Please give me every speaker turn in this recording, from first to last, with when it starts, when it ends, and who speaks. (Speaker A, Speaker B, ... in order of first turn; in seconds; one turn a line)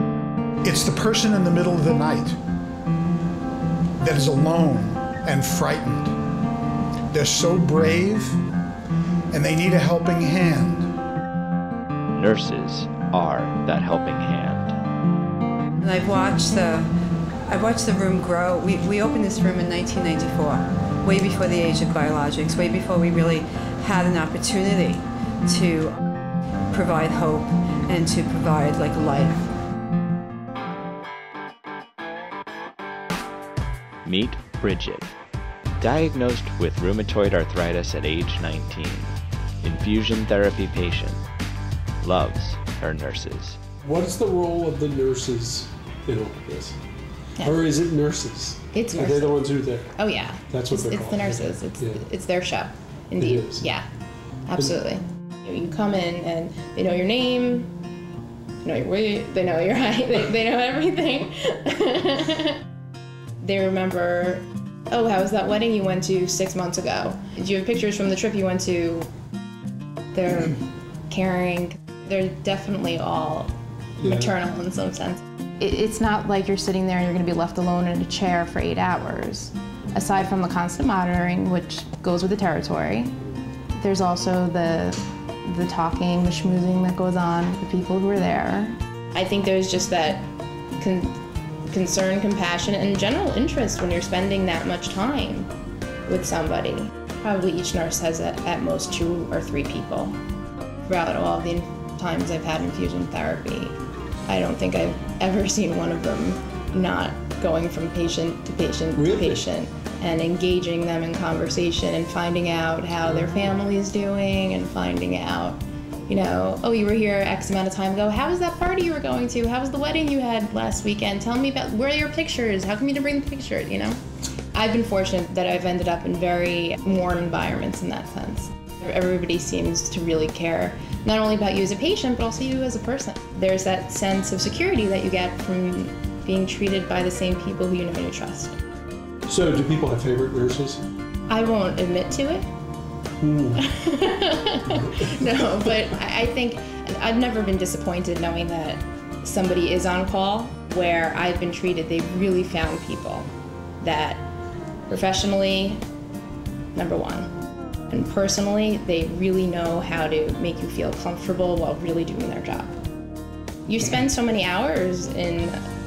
Speaker A: 0.6-2.3
Speaker A: 4.0-6.1
Speaker A: 7.1-8.3
Speaker A: 9.3-10.9
Speaker B: 12.1-14.8
Speaker C: 15.8-16.9
Speaker C: 17.4-26.0
Speaker C: 26.7-29.4
Speaker B: 34.0-35.1
Speaker B: 35.8-41.2
Speaker B: 42.0-43.6
Speaker D: 43.8-46.8
Speaker D: 47.4-49.9
Speaker E: 48.7-53.8
Speaker D: 50.5-52.0
Speaker D: 53.2-53.6
Speaker E: 54.5-57.7
Speaker E: 58.6-62.6
Speaker E: 63.4-69.1
Speaker E: 70.1-83.2
Speaker D: 74.0-74.3
Speaker E: 83.8-90.3
Speaker E: 90.8-91.1
Speaker E: 91.7-95.5
Speaker E: 96.1-100.1
Speaker E: 100.9-103.7
Speaker E: 104.3-124.0
Speaker D: 109.0-109.4
Speaker D: 113.2-113.5
Speaker E: 124.5-138.6
Speaker D: 139.3-140.8
Speaker E: 141.3-142.4
Speaker D: 143.2-143.7
Speaker E: 143.6-153.3
Speaker D: 144.7-145.4
Speaker E: 153.8-154.2
Speaker E: 154.9-155.8
Speaker E: 156.7-157.3
Speaker E: 157.9-162.7
Speaker E: 163.7-165.6